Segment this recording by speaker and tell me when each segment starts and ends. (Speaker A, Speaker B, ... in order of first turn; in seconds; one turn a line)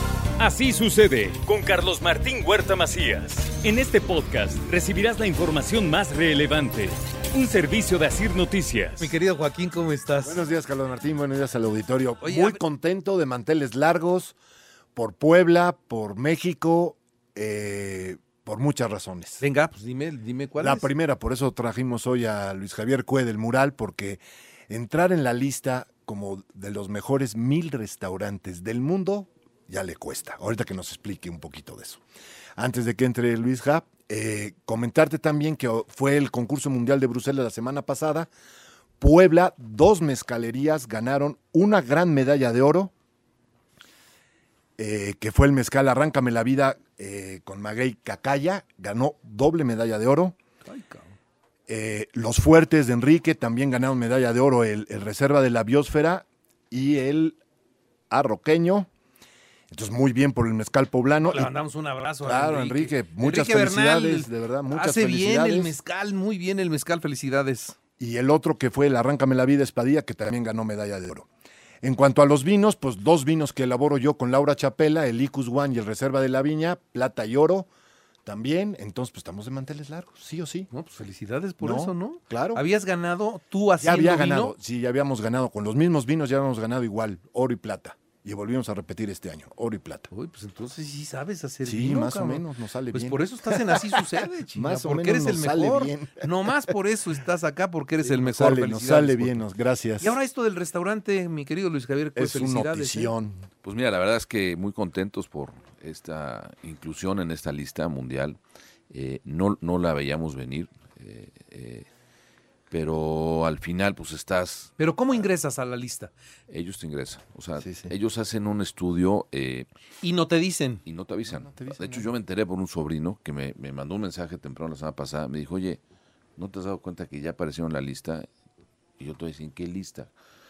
Speaker A: 0.4-9.1
Speaker B: 9.0-10.4
Speaker C: 10.2-14.3
Speaker B: 12.2-12.6
Speaker C: 14.9-19.4
Speaker B: 19.4-20.9
Speaker C: 20.6-32.0
Speaker C: 32.5-38.3
Speaker C: 39.0-42.9
Speaker C: 44.8-50.4
Speaker B: 50.6-51.1
Speaker C: 51.7-57.4
Speaker C: 58.1-58.9
Speaker C: 59.7-61.5
Speaker B: 61.3-67.8
Speaker C: 62.2-65.8
Speaker C: 68.0-71.3
Speaker C: 71.8-77.7
Speaker C: 78.2-80.7
Speaker B: 80.7-84.5
Speaker C: 81.6-82.6
Speaker C: 83.8-90.1
Speaker B: 90.1-99.4
Speaker C: 91.6-96.6
Speaker C: 98.0-100.2
Speaker B: 100.0-103.1
Speaker C: 102.2-103.5
Speaker D: 103.6-108.4
Speaker D: 108.9-111.8
Speaker D: 112.7-114.7
Speaker B: 114.8-116.1
Speaker D: 116.5-119.7
Speaker C: 117.6-117.9
Speaker B: 120.0-120.8
Speaker D: 120.8-125.8
Speaker C: 121.2-122.1
Speaker D: 126.4-128.2
Speaker D: 129.0-130.1